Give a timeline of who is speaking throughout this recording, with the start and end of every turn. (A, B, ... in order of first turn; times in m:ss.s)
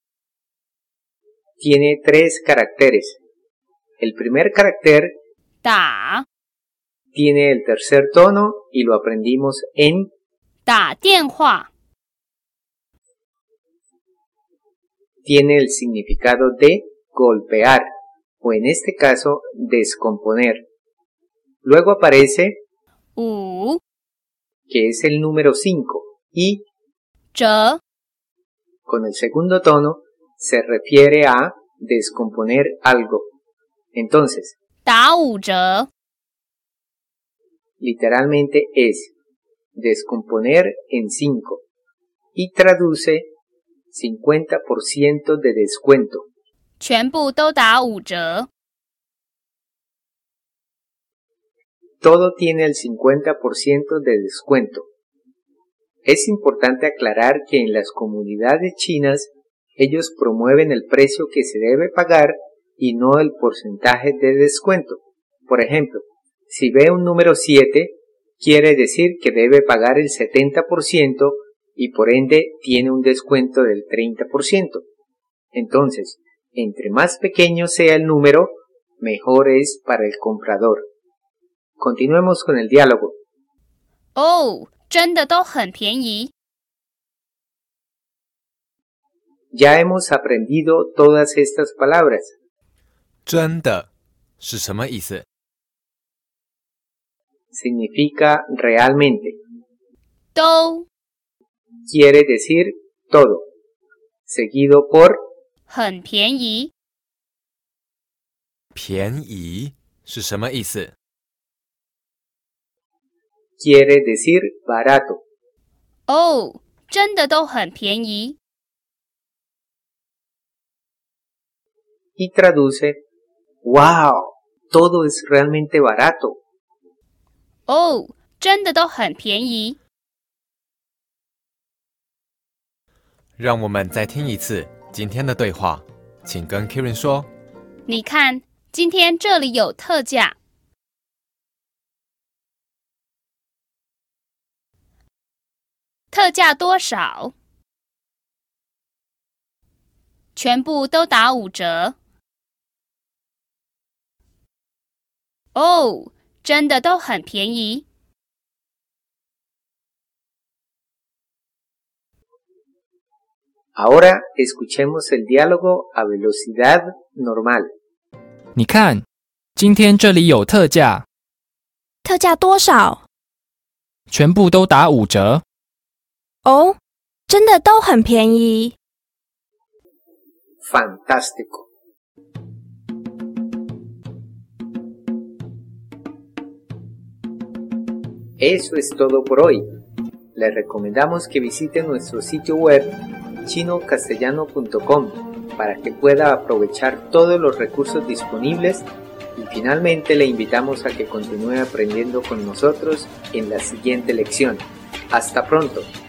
0:01.6-0:03.2 A
0:04.0-0:05.2 A
0:05.6-0:06.3 B
0:07.1-0:10.1 A
0:10.7-0:11.7 B
0:15.2-0:17.9 A
0:18.4-0:20.7 A
0:21.6-0:22.6 A
0:23.2-0:23.8 B
0:24.7-0:26.7 A
0:27.3-0:27.8 B
0:28.9-0:33.3 A
0:33.9-0:34.6 A
0:34.8-0:35.9 B
0:37.8-0:39.1 A
0:39.8-0:41.6 A
0:42.4-0:43.3 A
0:43.9-0:46.3 A
0:46.8-0:48.5 B
0:52.0-0:54.9 A
0:56.0-1:14.8 A
1:15.5-1:20.8 A
1:21.8-1:23.2 A
1:24.2-1:26.3 B
1:29.5-1:32.3 A
1:33.3-1:33.9 C
1:34.4-1:35.2 C
1:37.5-1:39.4 A
1:40.4-1:40.9 B
1:41.9-1:43.5 A
1:44.3-1:45.2 A
1:45.7-1:46.7 B
1:48.8-1:50.9 C
1:53.6-1:55.2 A
1:56.1-1:58.4 B
2:02.2-2:03.0 A
2:03.6-2:06.4 A
2:07.7-2:09.8 B
2:13.4-2:17.3 C
2:17.9-2:20.4 B
2:26.1-2:27.3 B
2:30.4-2:32.0 B
2:35.6-2:37.8 B
2:43.8-2:47.7 A
2:48.6-2:51.0 D
2:52.0-2:53.0 E
2:54.1-2:55.4 D
2:56.4-2:56.8 E
2:57.3-2:58.8 E
3:00.6-3:01.7 A
3:08.4-3:09.6 A
3:10.4-3:25.9 A